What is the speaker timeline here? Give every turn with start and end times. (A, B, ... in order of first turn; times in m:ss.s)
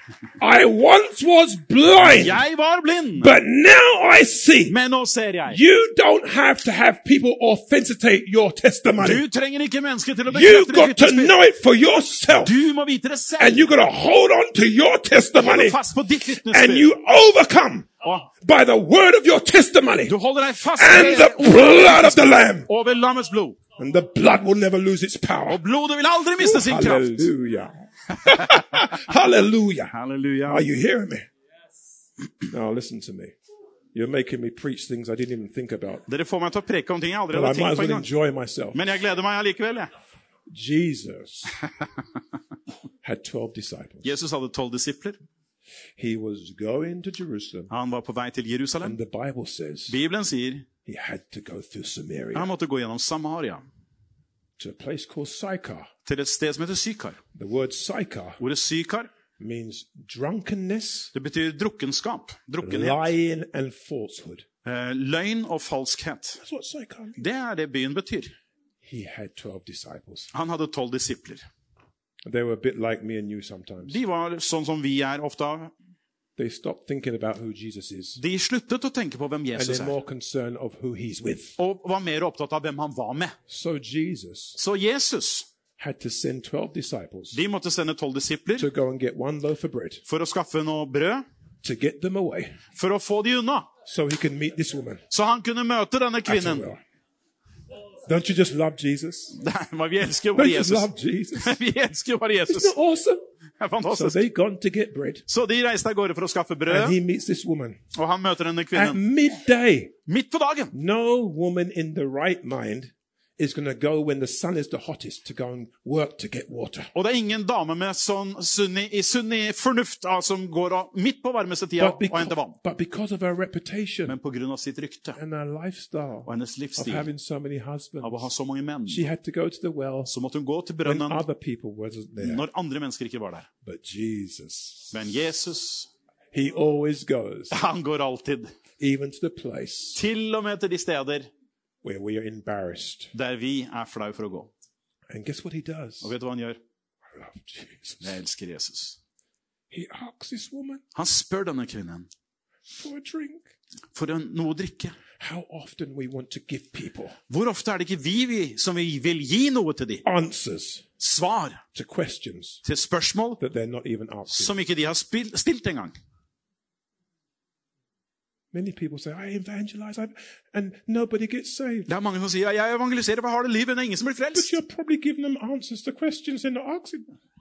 0:00.4-0:02.4 A
0:02.0-0:03.4 B
0:03.2-0:04.8 A
0:04.7-0:05.6 B
0:05.5-0:09.2 A
0:09.0-0:11.3 B
0:10.3-0:12.6 A
0:12.4-0:13.6 B
0:13.4-0:15.8 A
0:15.4-0:16.9 B
0:16.3-0:20.2 A
0:18.0-0:18.3 B
0:20.1-0:23.6 B
0:20.7-0:22.7 A
0:23.8-0:25.6 A
0:25.5-0:27.3 B
0:26.4-0:30.0 A
0:28.1-0:29.0 B
0:29.9-0:30.7 B
0:30.5-0:31.3 A
0:32.5-0:33.4 A
0:33.9-0:36.0 A
0:36.1-0:38.1 B
0:37.3-0:38.9 A
0:38.7-0:39.9 B
0:40.5-0:41.6 A
0:43.0-0:44.2 A
0:44.0-0:45.2 B
0:46.0-0:47.7 A
0:47.7-0:49.0 B
0:48.8-0:50.0 A
0:49.9-0:50.7 B
0:50.9-0:52.5 A
0:52.4-0:53.6 B
0:54.6-0:55.9 A
0:56.1-0:57.2 B
0:57.4-0:58.4 A
0:58.4-0:59.1 B
0:59.4-1:01.1 A
1:01.1-1:03.1 B
1:02.6-1:04.5 A
1:04.6-1:06.4 B
1:06.4-1:07.2 A
1:07.2-1:08.3 B
1:08.8-1:10.3 A
1:10.3-1:11.5 B
1:12.2-1:14.0 A
1:13.9-1:15.7 B
1:16.4-1:18.2 A
1:18.2-1:20.0 B
1:19.6-1:21.6 A
1:21.6-1:23.4 B
1:23.5-1:24.6 A
1:24.6-1:25.5 B
1:25.8-1:27.4 A
1:27.3-1:28.7 B
1:28.6-1:30.0 A
1:30.1-1:31.2 B
1:31.6-1:32.6 A
1:32.8-1:33.7 B
1:33.8-1:35.0 A
1:35.1-1:36.7 B
1:36.3-1:36.8 A
1:38.1-1:39.4 A
1:39.3-1:42.7 B
1:40.3-1:41.6 A
1:42.5-1:43.2 A
1:43.6-1:44.2 B
1:43.8-1:45.2 A
1:45.3-1:47.0 B
1:46.7-1:47.8 A
1:48.0-1:49.0 B
1:48.7-1:49.9 A
1:50.1-1:50.7 B
1:50.7-1:56.9 A
1:56.9-2:02.6 B
2:01.8-2:04.2 A
2:04.1-2:05.2 B
2:05.2-2:08.3 A
2:06.3-2:07.1 B
2:08.0-2:09.1 B
2:08.9-2:10.1 A
2:10.1-2:11.2 B
2:10.8-2:12.5 A
2:12.2-2:13.5 B
2:13.6-2:15.1 A
2:14.9-2:15.9 B
2:16.3-2:17.6 A
2:17.5-2:18.5 B
2:18.8-2:20.0 A
2:20.0-2:21.3 B
2:21.8-2:23.1 A
2:23.1-2:24.5 B
2:25.1-2:26.1 A
2:26.0-2:26.6 B
2:27.1-2:28.2 A
2:28.0-2:29.0 B
2:29.7-2:30.8 A
2:31.0-2:32.1 B
2:32.7-2:33.4 A
2:33.9-2:35.0 B
2:35.2-2:37.2 A
2:37.3-2:40.0 B
2:40.0-2:40.9 A
2:41.0-2:41.6 B
2:41.7-2:42.6 A
2:42.6-2:43.4 B
2:43.4-2:44.6 A
2:44.3-2:45.9 B
2:48.5-2:51.9 A
2:51.9-2:54.5 B
2:54.3-2:57.1 A